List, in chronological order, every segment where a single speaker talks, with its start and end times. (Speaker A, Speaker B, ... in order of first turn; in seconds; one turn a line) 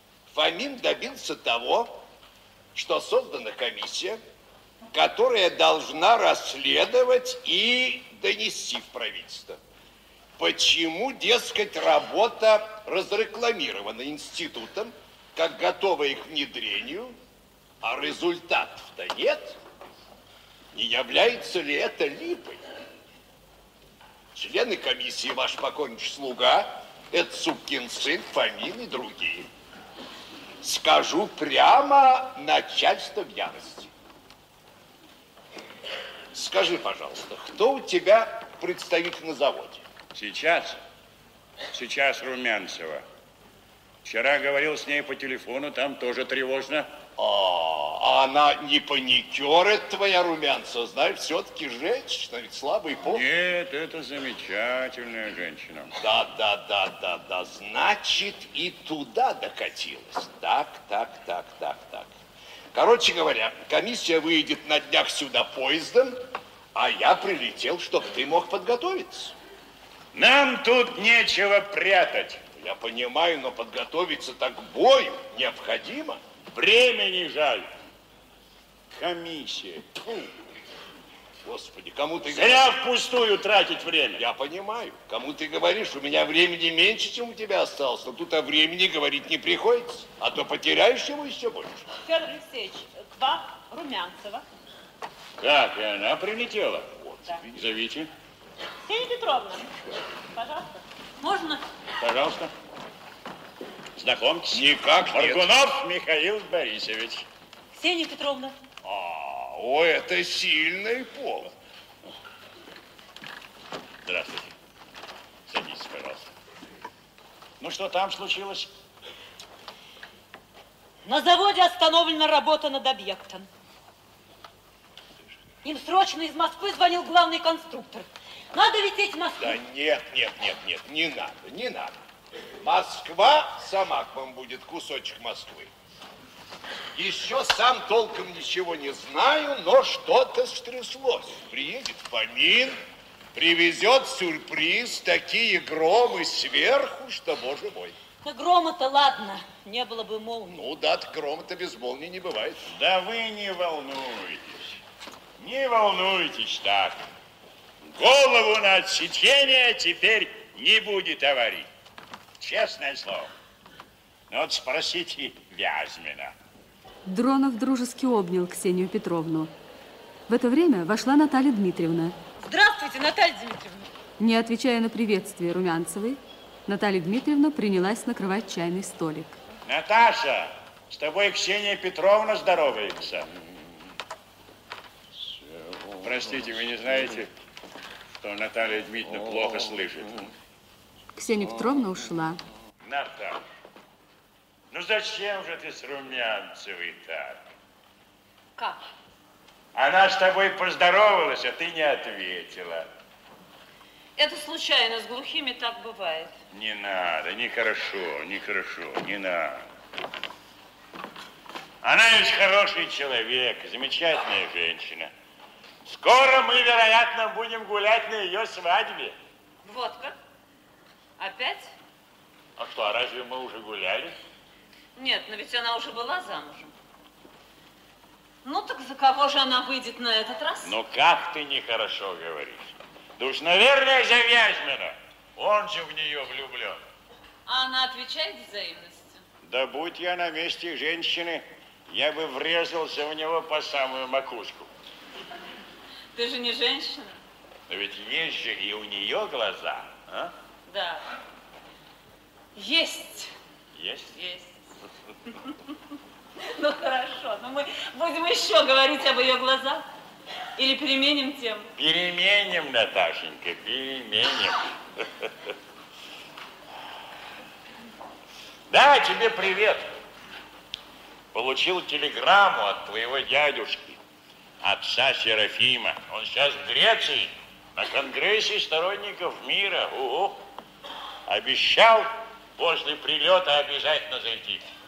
Speaker A: 0.3-2.0
Speaker A: 2.7-4.2
Speaker A: 4.9-9.6
Speaker A: 10.4-17.2
Speaker A: 17.8-19.6
Speaker A: 20.7-22.6
Speaker A: 24.3-29.5
Speaker A: 30.6-33.9
Speaker A: 36.3-39.8
Speaker B: 40.1-40.8
Speaker B: 41.7-43.0
Speaker B: 44.0-46.9
Speaker A: 47.2-53.2
Speaker B: 53.0-55.9
Speaker A: 56.0-62.1
Speaker A: 62.7-66.2
Speaker A: 66.8-69.3
Speaker B: 70.1-72.4
Speaker A: 72.6-76.2
Speaker B: 76.5-77.7
Speaker B: 78.9-80.0
Speaker A: 81.5-82.7
Speaker B: 82.2-84.3
Speaker A: 84.2-91.9
Speaker C: 92.0-94.5
Speaker B: 95.4-96.9
Speaker A: 97.0-97.5
Speaker B: 97.5-98.1
Speaker C: 98.9-99.7
Speaker C: 100.3-100.7
Speaker C: 101.2-101.6
Speaker B: 102.0-102.5
Speaker B: 104.0-107.3
Speaker A: 104.5-105.5
Speaker C: 107.8-108.5
Speaker A: 108.9-111.5
Speaker B: 114.0-114.5
Speaker B: 115.5-116.3
Speaker B: 117.6-118.7
Speaker C: 121.0-123.5
Speaker C: 125.6-129.6
Speaker A: 129.4-131.9
Speaker A: 132.6-135.7
Speaker A: 136.9-142.8
Speaker A: 143.3-148.0
Speaker C: 148.2-150.6
Speaker A: 150.5-152.6
Speaker B: 152.7-154.8
Speaker B: 155.4-157.0
Speaker B: 157.9-161.7
Speaker B: 162.4-163.3
Speaker B: 164.3-166.3
Speaker D: 167.1-169.5
Speaker D: 170.3-172.2
Speaker C: 172.4-173.9
Speaker D: 174.2-179.3
Speaker B: 179.7-183.3
Speaker A: 185.5-186.0
Speaker B: 186.0-187.3
Speaker B: 188.1-190.2
Speaker D: 191.2-192.4
Speaker B: 192.8-193.4
Speaker B: 194.7-197.5
Speaker B: 199.7-202.9
Speaker E: 204.2-206.3
Speaker B: 206.5-209.7
Speaker B: 211.8-215.1
Speaker B: 215.8-219.2
Speaker E: 219.6-220.2
Speaker E: 221.2-221.7
Speaker B: 222.6-224.2
Speaker E: 224.9-226.7
Speaker E: 228.4-230.7
Speaker B: 230.6-236.8
Speaker E: 237.5-239.2
Speaker B: 239.4-244.7
Speaker E: 246.2-247.2
Speaker B: 247.7-250.3
Speaker E: 250.7-251.0
Speaker E: 252.6-253.3
Speaker B: 253.8-254.2
Speaker E: 254.2-254.6
Speaker E: 256.5-259.9
Speaker E: 260.6-261.7
Speaker B: 261.8-265.5
Speaker B: 268.7-269.9
Speaker B: 271.3-274.0
Speaker B: 274.6-280.4
Speaker B: 281.3-284.7